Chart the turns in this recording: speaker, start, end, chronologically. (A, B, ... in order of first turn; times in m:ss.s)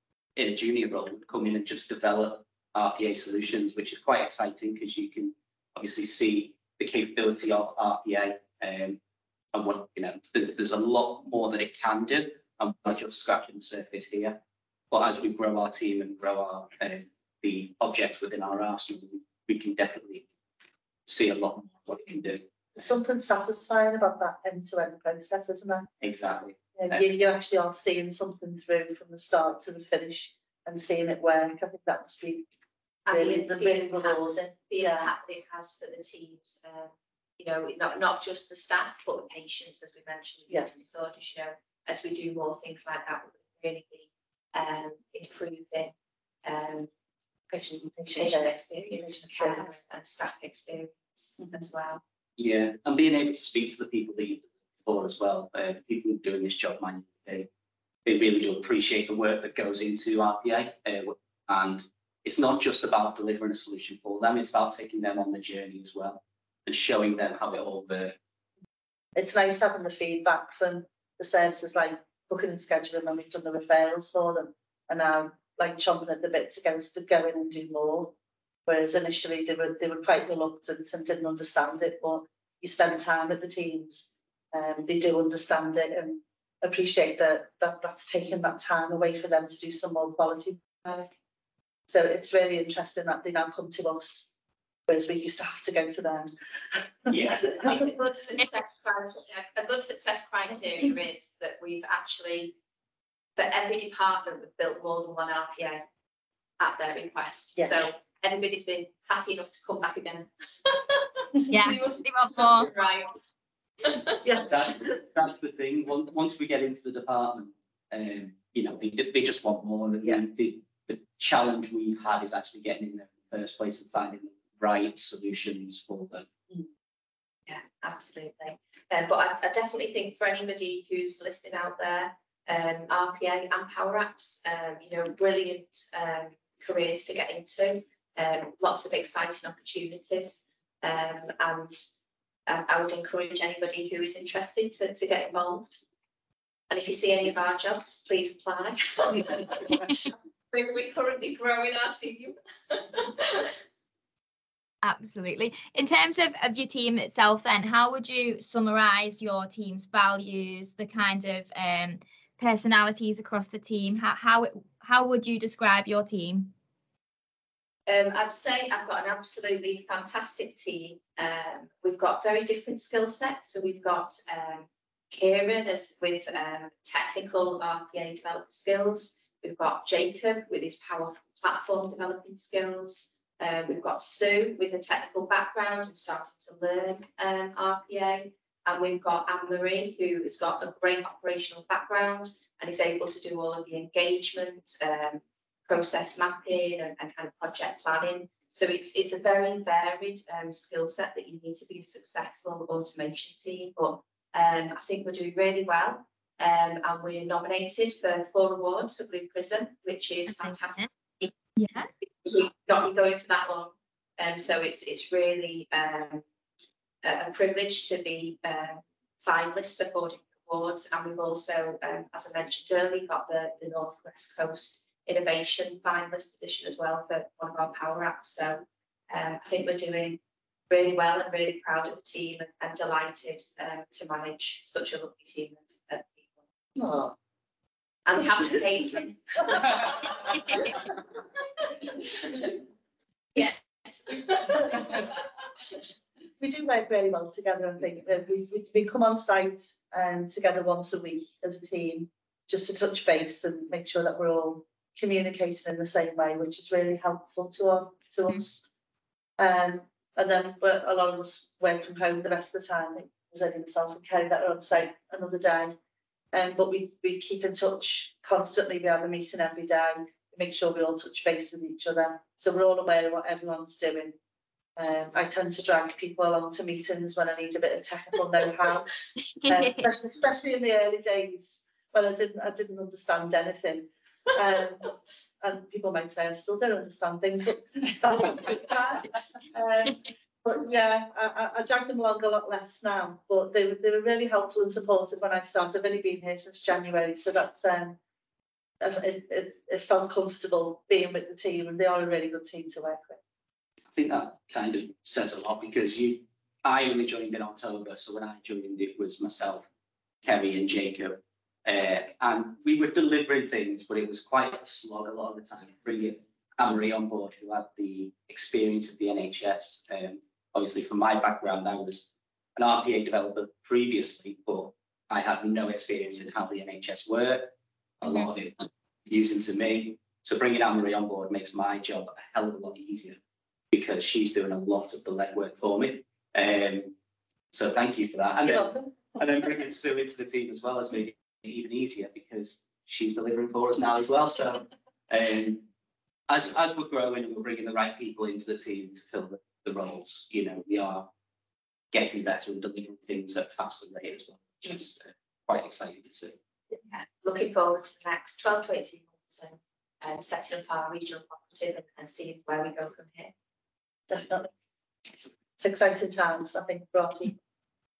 0:00.4-0:09.0 A
0:09.5-0:14.4 A
0:14.9-0:20.2 A
0:21.1-0:22.4 A
0:22.8-0:25.9 B
0:26.0-0:27.0 A
0:26.8-0:32.5 B
0:33.1-0:45.9 C
0:33.1-0:35.1 B
0:46.4-0:46.9 C
0:47.5-0:49.8 B
0:48.1-0:52.0 C
0:51.4-0:51.6 B
0:52.4-0:57.5 A
0:58.0-1:08.2 A
1:09.2-1:18.1 B
1:18.6-1:31.1 B
1:31.9-1:34.3 B
1:34.9-1:37.9 B
1:37.1-1:37.7 A
1:37.5-1:42.6 C
1:43.4-1:45.8 C
1:46.6-1:53.2 C
1:47.6-1:47.9 B
1:51.5-1:52.7 D
1:53.8-1:54.1 C
1:54.4-2:06.3 A
2:07.5-2:21.8 C
2:22.5-2:25.8 C
2:26.7-2:33.5 C
2:34.8-2:46.5 D
2:47.9-3:31.3 C
3:30.3-3:30.8 D
3:31.6-3:31.9 D
3:32.2-3:36.2 C
3:37.0-3:56.3 C
3:56.8-3:57.1 B
3:58.0-4:00.8 C
3:58.2-3:58.6 B
4:03.3-4:05.1 C
4:06.4-4:18.6 B
4:19.4-4:25.8 B
4:26.3-4:34.2 B
4:34.8-4:38.9 B
4:39.4-4:39.9 D
4:39.5-4:58.0 B
4:58.8-5:03.2 B
5:03.9-5:09.7 A
5:10.2-5:33.2 A
5:33.7-5:36.9 A
5:37.5-5:45.7 A
5:38.4-5:38.8 B
5:46.3-5:51.1 A
5:51.9-5:56.4 A
5:56.9-6:03.3 C
6:04.1-6:04.5 B
6:05.6-6:07.4 B